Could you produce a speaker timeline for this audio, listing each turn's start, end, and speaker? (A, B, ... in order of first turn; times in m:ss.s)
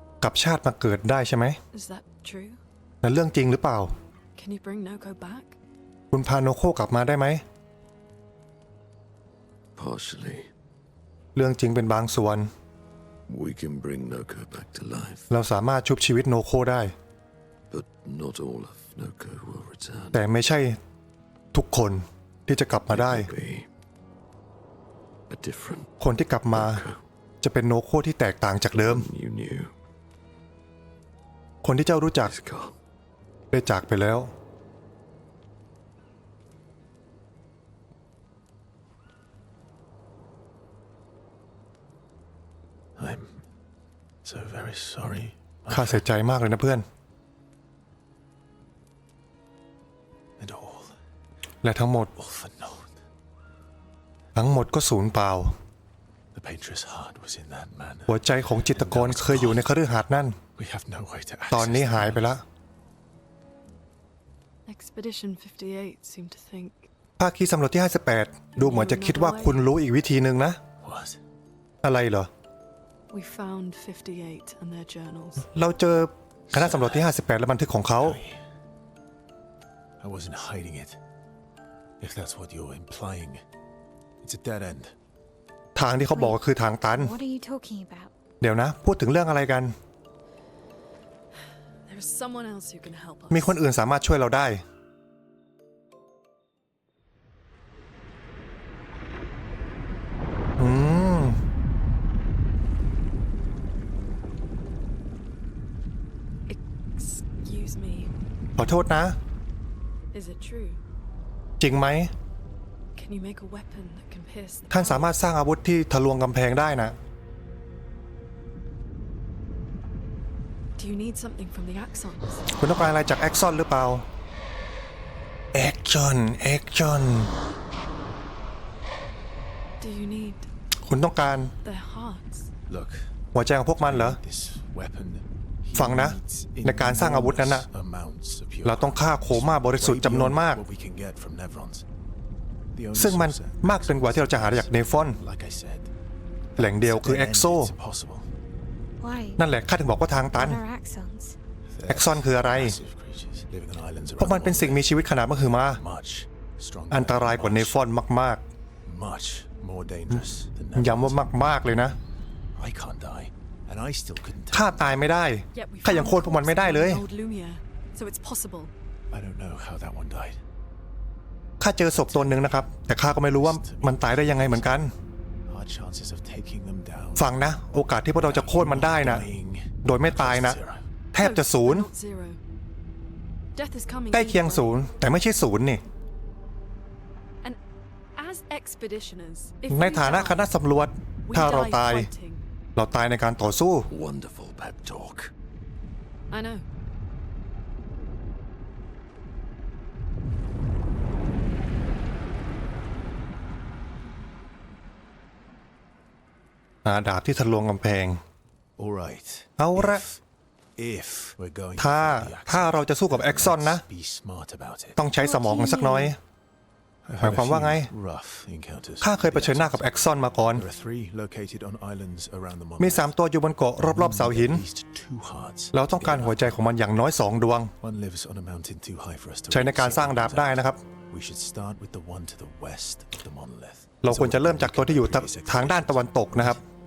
0:00.2-0:01.6 A
0:01.7-0:02.6 B
0:03.0-0:03.9 A
0:04.4-0:05.6 B
0:06.1-0:07.4 A
0:09.8-0:10.5 C
0:11.4-0:12.5 A
0:13.3-0:15.3 C
0:15.3-0:16.9 A
0:17.7-0:20.2 C
0:20.1-0:20.8 A
0:21.5-0:23.3 A
0:22.9-0:23.7 C
0:25.3-0:25.9 C
0:26.0-0:26.8 A
0:26.5-0:27.0 C
0:27.4-0:29.1 A
0:28.7-0:29.7 C
0:31.6-0:32.3 A
0:32.2-0:32.8 C
0:33.5-0:34.3 A
0:43.0-0:43.4 D
0:44.2-0:46.1 D
0:45.7-0:46.8 A
0:50.4-0:51.0 D
0:51.6-0:52.1 A
0:52.1-0:52.9 D
0:54.4-0:55.6 A
0:56.3-0:59.7 D
0:58.1-1:00.4 A
1:00.6-1:02.3 D
1:01.5-1:02.4 A
1:04.6-1:06.9 B
1:07.2-1:10.6 A
1:08.6-1:09.6 B
1:10.8-1:11.2 D
1:11.8-1:12.3 A
1:13.1-1:15.4 B
1:15.5-1:18.2 A
1:16.5-1:17.2 D
1:17.9-1:18.4 D
1:20.0-1:21.0 D
1:22.0-1:23.4 D
1:24.2-1:24.9 D
1:25.8-1:27.2 A
1:26.1-1:26.4 E
1:26.9-1:28.1 E
1:28.4-1:29.7 A
1:31.9-1:33.6 B
1:33.3-1:34.6 A
1:40.6-1:41.4 A
1:46.5-1:48.1 B
1:48.6-1:49.2 A
1:50.1-1:50.8 B
1:51.6-1:52.1 A
1:52.9-1:55.2 B
1:54.7-1:57.0 A
2:00.8-2:02.5 B
2:02.6-2:04.1 A
2:05.5-2:07.3 A
2:09.8-2:10.5 B
2:10.9-2:11.5 A
2:11.6-2:12.5 B
2:12.7-2:13.1 D
2:13.3-2:14.2 A
2:13.8-2:21.9 D
2:15.7-2:17.7 A
2:18.6-2:20.6 A
2:22.7-2:25.9 D
2:22.9-2:25.2 A
2:26.6-2:28.3 D
2:26.6-2:27.7 A
2:29.0-2:29.4 E
2:29.4-2:30.6 A
2:30.3-2:31.4 E
2:31.7-2:37.9 D
2:31.9-2:32.8 A
2:34.2-2:35.8 A
2:36.9-2:38.4 A
2:38.8-2:41.2 D
2:40.8-2:42.0 A
2:42.6-2:45.0 D
2:44.5-2:47.0 A
2:45.5-2:48.7 B
2:49.1-2:50.4 D
2:51.6-2:54.9 A
2:51.9-2:54.9 D
2:55.5-2:57.4 D
2:57.2-2:59.3 A
2:58.1-3:00.9 D
2:59.8-3:00.6 A
3:01.1-3:01.9 A
3:01.2-3:02.4 B
3:03.6-3:04.8 B
3:04.1-3:05.8 A
3:08.2-3:10.5 B
3:09.7-3:12.1 A
3:11.2-3:12.4 B
3:12.8-3:13.9 A
3:13.9-3:15.3 C
3:16.3-3:16.6 B
3:26.8-3:28.2 A
3:28.8-3:30.2 D
3:29.6-3:30.0 A
3:30.8-3:35.0 D
3:31.8-3:33.8 A
3:35.0-3:36.2 A
3:35.2-3:36.1 E
3:37.0-3:43.1 D
3:37.2-3:37.9 A
3:39.0-3:40.6 A
3:42.8-3:44.6 A
3:43.8-3:46.6 D
3:45.7-3:47.7 A
3:47.8-3:56.6 D
3:49.5-3:50.8 A
3:54.0-3:56.6 A